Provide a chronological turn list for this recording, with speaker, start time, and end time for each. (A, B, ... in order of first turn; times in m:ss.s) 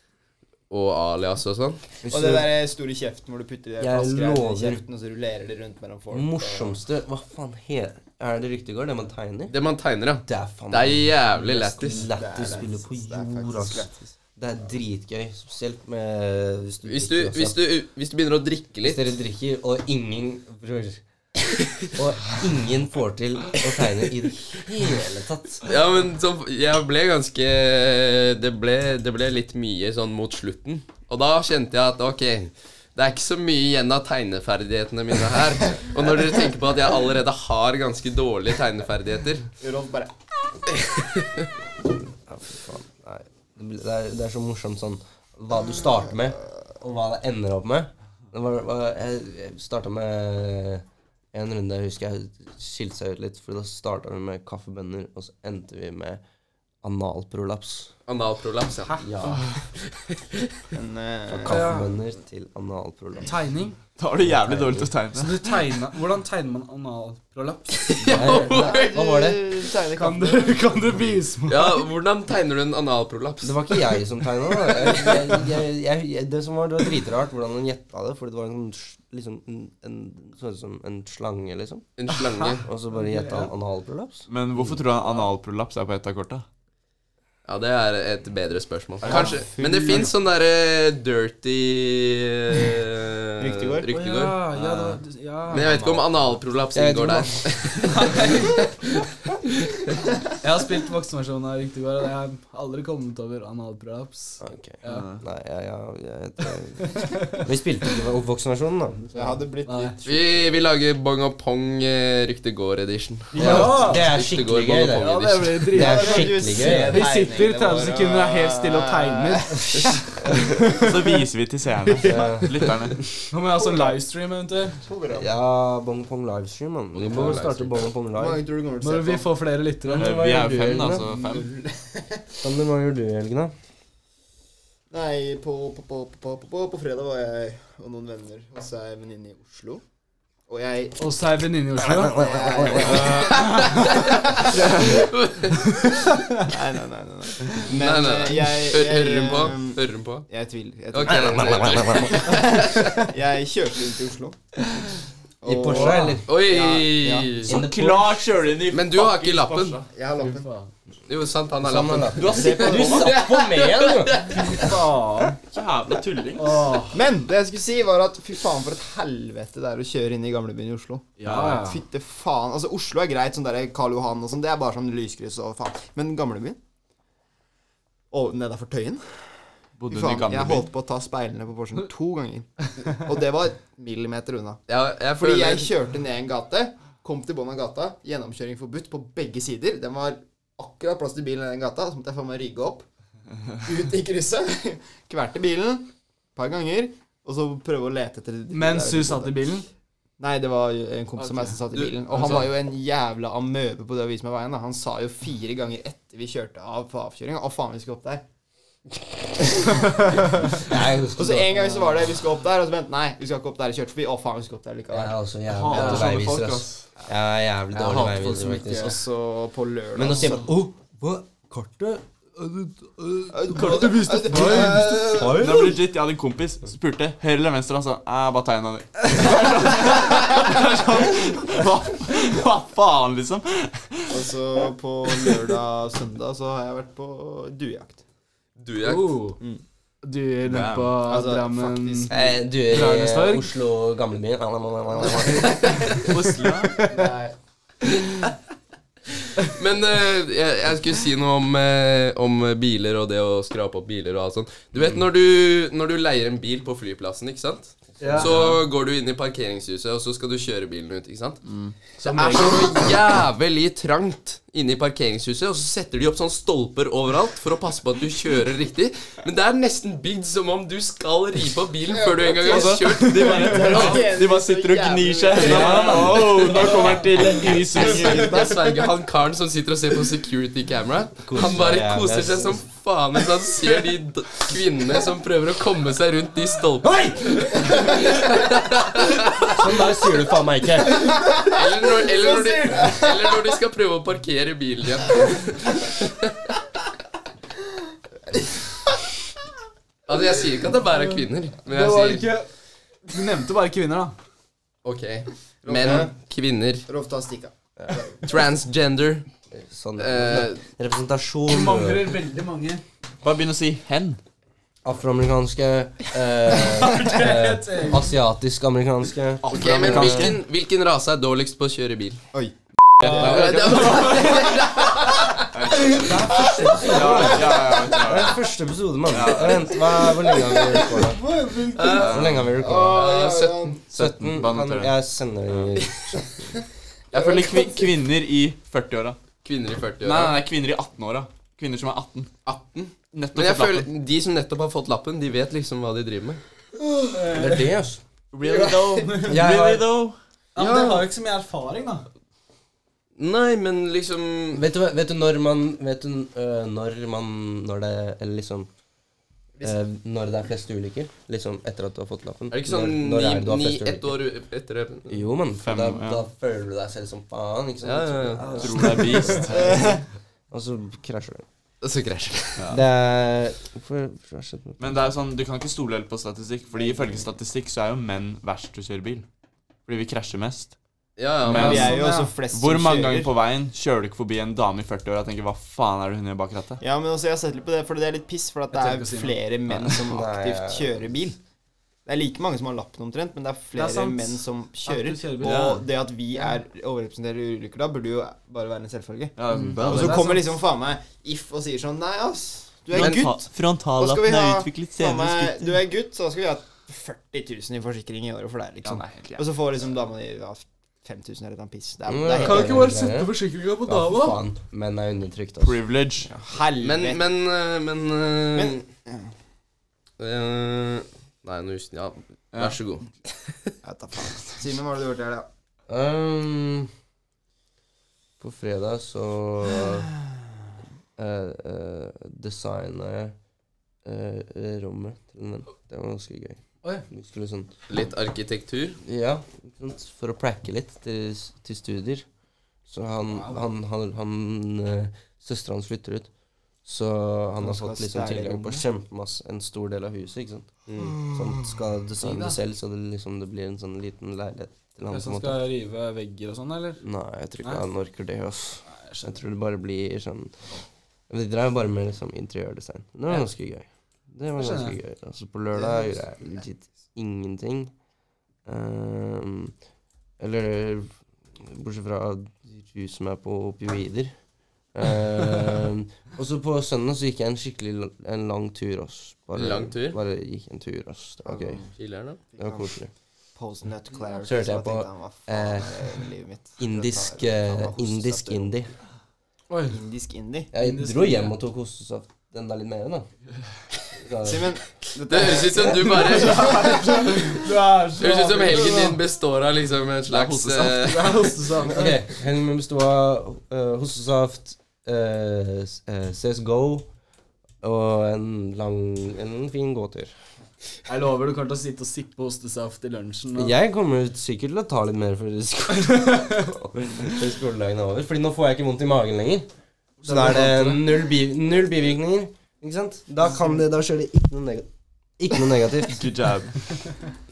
0:00.7-0:01.8 A
0:02.0-0:02.5 B
0:02.0-0:06.8 C
0:03.8-0:04.8 B
0:06.1-0:09.5 B
0:09.5-0:12.0 A
0:10.2-0:17.6 B
0:12.0-0:14.1 C
0:16.8-0:19.1 A
0:18.8-0:21.0 B
0:21.9-0:25.7 B
0:25.6-0:39.4 A
0:39.6-0:40.1 C
0:42.1-0:56.2 B
0:56.8-0:57.9 B
0:58.1-1:00.5 A
0:59.0-0:59.4 B
1:00.7-1:01.7 C
1:01.3-1:03.3 B
1:01.5-1:01.9 D
1:03.2-1:03.8 D
1:04.0-1:05.7 E
1:04.2-1:04.9 B
1:05.1-1:08.5 D
1:07.8-1:09.0 A
1:08.1-1:09.4 B
1:08.2-1:11.2 C
1:09.9-1:11.8 D
1:11.5-1:13.9 A
1:13.4-1:21.9 B
1:14.8-1:15.1 A
1:22.0-1:22.6 A
1:22.6-1:24.3 B
1:23.0-1:23.5 D
1:24.3-1:26.4 E
1:27.4-1:34.4 A
1:29.0-1:30.0 E
1:33.4-1:33.9 C
1:33.9-1:36.0 D
1:34.5-1:35.0 B
1:35.5-1:39.0 A
1:36.7-1:37.4 B
1:37.8-1:38.6 D
1:40.4-1:45.1 D
1:44.4-1:49.2 B
1:44.9-1:45.2 E
1:46.8-1:47.5 D
1:49.1-1:50.5 C
1:49.6-1:50.0 D
1:50.0-1:55.6 A
1:53.3-1:54.1 D
1:53.4-1:57.1 B
1:54.9-2:00.9 D
1:55.7-2:00.6 C
2:00.8-2:03.0 E
2:02.0-2:02.5 D
2:02.0-2:02.7 B
2:03.3-2:04.8 D
2:03.5-2:04.0 C
2:04.7-2:05.3 C
2:05.1-2:08.4 B
2:06.9-2:07.8 A
2:08.1-2:09.3 C
2:08.8-2:10.7 D
2:09.9-2:11.5 E
2:09.9-2:11.0 B
2:10.9-2:12.5 C
2:12.4-2:13.5 B
2:14.9-2:19.8 C
2:20.5-2:21.0 C
2:21.0-2:22.3 D
2:21.9-2:23.2 B
2:22.1-2:24.6 C
2:23.0-2:25.8 A
2:24.5-2:25.0 E
2:25.8-2:26.5 D
2:26.4-2:34.4 C
2:27.6-2:30.2 A
2:30.9-2:33.1 A
2:31.1-2:32.3 B
2:35.4-2:37.3 C
2:35.4-2:36.2 B
2:35.7-2:36.2 D
2:36.3-2:37.5 A
2:37.4-2:38.2 B
2:37.4-2:39.9 E
2:38.7-2:39.8 A
2:39.9-2:40.5 C
2:40.2-2:40.7 D
2:41.1-2:44.6 A
2:41.6-2:44.8 B
2:42.2-2:43.1 E
2:42.3-2:43.1 C
2:44.5-2:45.3 C
2:44.5-2:45.3 D
2:45.5-2:46.7 E
2:46.4-2:47.0 D
2:46.9-2:56.6 C
2:51.2-2:51.7 E
2:51.2-2:51.8 D
2:58.1-2:59.3 C
2:59.8-3:00.7 E
2:59.9-3:04.6 C
3:04.7-3:05.7 A
3:05.2-3:12.8 C
3:13.6-3:19.6 C
3:18.5-3:19.6 D
3:20.2-3:28.2 C
3:22.1-3:22.5 E
3:29.4-3:35.2 C
3:30.6-3:32.0 B
3:34.9-3:39.0 B
3:35.5-3:36.8 E
3:35.7-3:36.1 C
3:35.7-3:36.1 D
3:37.9-3:38.8 D
3:38.6-3:40.5 C
3:39.9-3:45.8 B
3:43.3-3:45.5 C
3:43.4-3:44.9 D
3:45.2-3:54.3 E
3:49.1-3:50.5 D
3:54.1-3:58.0 C
3:58.6-3:59.3 A
3:58.8-3:59.4 D
4:00.0-4:03.5 D
4:00.4-4:01.0 E
4:01.0-4:02.3 C
4:02.1-4:05.9 B
4:05.0-4:05.3 C
4:06.0-4:06.8 E
4:06.8-4:07.0 D
4:06.8-4:07.3 C
4:09.4-4:21.4 A
4:18.0-4:18.4 B
4:18.1-4:18.6 E
4:21.5-4:21.7 E
4:22.0-4:34.0 A
4:22.0-4:22.9 D
4:31.9-4:38.7 C
4:32.4-4:38.5 E
4:35.4-4:36.7 A
4:35.5-4:36.7 D
4:37.7-4:49.6 A
4:41.2-4:42.6 B
4:49.5-4:51.3 B
4:51.5-4:56.3 A
4:52.2-4:53.0 C
5:00.1-5:02.3 A
5:01.6-5:02.5 D
5:03.1-5:04.2 D
5:04.8-5:06.9 A
5:05.6-5:06.1 C
5:06.9-5:08.2 C
5:08.2-5:09.3 A
5:09.5-5:12.2 B
5:10.0-5:10.6 A
5:11.4-5:12.8 D
5:13.2-5:14.2 E
5:14.8-5:20.3 B
5:16.6-5:18.1 D
5:19.4-5:20.4 E
5:19.5-5:22.2 A
5:23.0-5:25.4 A
5:23.0-5:24.5 E
5:23.0-5:24.0 D
5:25.5-5:28.4 E
5:25.9-5:27.3 D
5:25.9-5:28.1 C
5:26.0-5:31.2 B
5:29.1-5:29.8 E
5:30.3-5:30.8 C
5:30.9-5:32.1 D
5:31.7-5:32.4 A
5:31.9-5:33.1 B
5:31.9-5:32.6 E
5:32.5-5:33.8 C
5:32.9-5:33.8 A
5:33.9-5:36.2 B
5:33.9-5:34.9 E
5:37.1-5:37.9 C
5:37.1-5:39.2 E
5:39.4-5:40.4 A
5:40.0-5:42.3 E
5:42.4-5:46.4 A
5:43.1-5:43.9 E
5:46.8-5:47.4 C
5:47.1-5:47.7 D
5:47.3-5:48.0 B
5:48.3-5:50.2 E
5:48.4-5:49.4 C
5:49.2-5:49.9 B
5:50.5-5:52.1 D
5:50.6-5:51.0 A
5:53.2-5:54.6 A
5:54.5-5:58.7 B
5:59.6-6:04.2 B
6:02.5-6:05.2 A
6:05.1-6:10.0 B
6:05.6-6:06.2 E
6:07.8-6:08.9 A
6:08.6-6:09.8 E
6:09.4-6:10.0 C
6:10.5-6:11.4 B
6:11.8-6:12.6 A
6:12.7-6:15.1 B
6:14.8-6:19.2 E
6:19.8-6:20.7 E
6:21.2-6:21.9 A
6:21.4-6:26.8 E
6:21.5-6:23.3 C
6:21.5-6:22.4 D
6:26.8-6:31.4 C
6:28.7-6:29.9 D
6:30.0-6:30.9 B
6:32.0-6:52.9 C
6:33.7-6:35.8 D
6:35.4-6:35.8 E
6:39.4-6:40.4 E
6:39.5-6:40.5 D
6:42.9-6:45.8 E
6:43.0-6:43.2 A
6:48.8-6:49.4 E
6:52.1-6:55.8 B
6:52.4-6:54.4 D
6:55.6-6:56.3 E
6:56.2-6:57.2 C
6:56.8-6:58.8 A
6:58.5-6:59.2 C
7:00.2-7:03.1 A
7:03.8-7:05.5 C
7:05.9-7:06.9 B
7:08.4-7:10.1 B
7:11.2-7:13.3 B
7:14.0-7:17.7 B
7:17.9-7:19.0 A
7:19.0-7:22.2 B
7:22.9-7:26.3 B
7:23.3-7:23.6 D
7:26.8-7:35.6 B
7:27.6-7:28.8 C
7:30.9-7:31.2 A
7:32.2-7:32.6 D
7:35.1-7:37.0 D
7:37.0-7:40.5 B
7:38.9-7:39.3 D
7:41.3-7:47.9 B
7:44.5-7:45.0 D
7:45.8-7:46.2 C
7:48.6-7:49.7 B
7:50.4-7:51.1 B
7:51.6-7:54.4 B
7:54.9-8:01.8 B
7:59.5-8:00.2 A
8:01.4-8:01.9 C
8:02.0-8:02.4 A
8:02.5-8:02.9 C
8:02.6-8:03.1 B
8:03.6-8:08.7 C
8:04.4-8:06.1 B
8:06.8-8:08.9 B
8:09.7-8:10.0 D
8:09.9-8:10.7 C
8:10.7-8:13.3 B
8:10.7-8:11.5 D
8:14.1-8:14.7 B
8:14.4-8:17.4 C
8:15.3-8:21.5 A
8:16.1-8:19.2 D
8:20.3-8:22.2 D
8:21.8-8:27.1 B
8:27.8-8:30.3 B
8:31.0-8:33.7 D
8:33.5-8:39.6 B
8:36.1-8:36.6 D
8:40.2-8:41.2 D
8:40.2-8:44.9 B
8:45.4-8:46.2 B
8:46.1-8:46.9 E